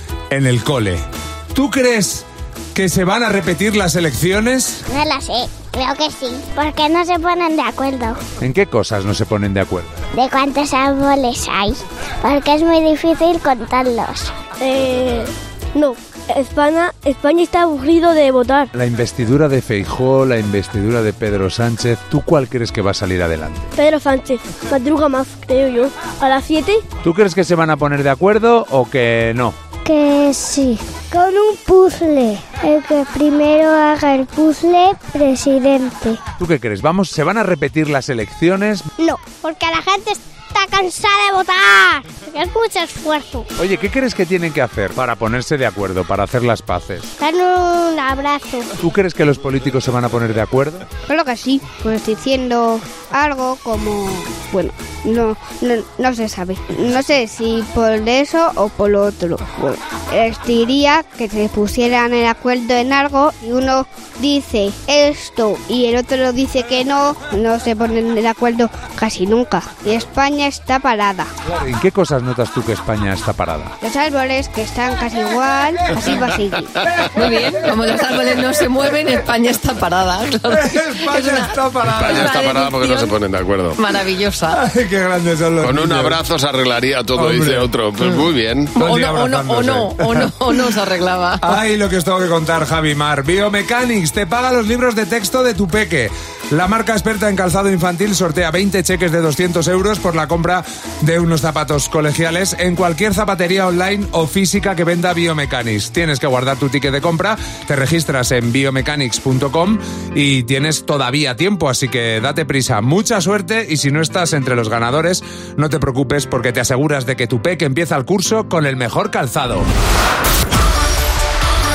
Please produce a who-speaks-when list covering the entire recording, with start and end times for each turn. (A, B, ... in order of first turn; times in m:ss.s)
0:00.3-0:04.8 A
0:04.9-0:08.2 B
0:08.4-0:10.0 A
0:10.1-0:18.7 B
0:18.8-0:23.7 A
0:23.8-0:26.8 B
0:27.0-0:29.6 A
0:29.8-0:36.2 B
0:36.4-0:38.9 A
0:39.0-0:43.5 B
0:43.6-0:47.1 A
0:47.2-0:48.7 B
0:48.8-0:50.9 A
0:51.1-1:11.3 C
1:11.5-1:13.7 A
1:13.8-1:16.7 C
1:17.1-1:23.1 D
1:20.5-1:22.3 A
1:22.0-1:23.8 E
1:23.8-1:24.6 D
1:24.5-1:26.2 A
1:25.6-1:28.7 E
1:27.2-1:27.7 A
1:28.8-1:31.6 D
1:28.8-1:30.7 A
1:31.4-1:59.7 A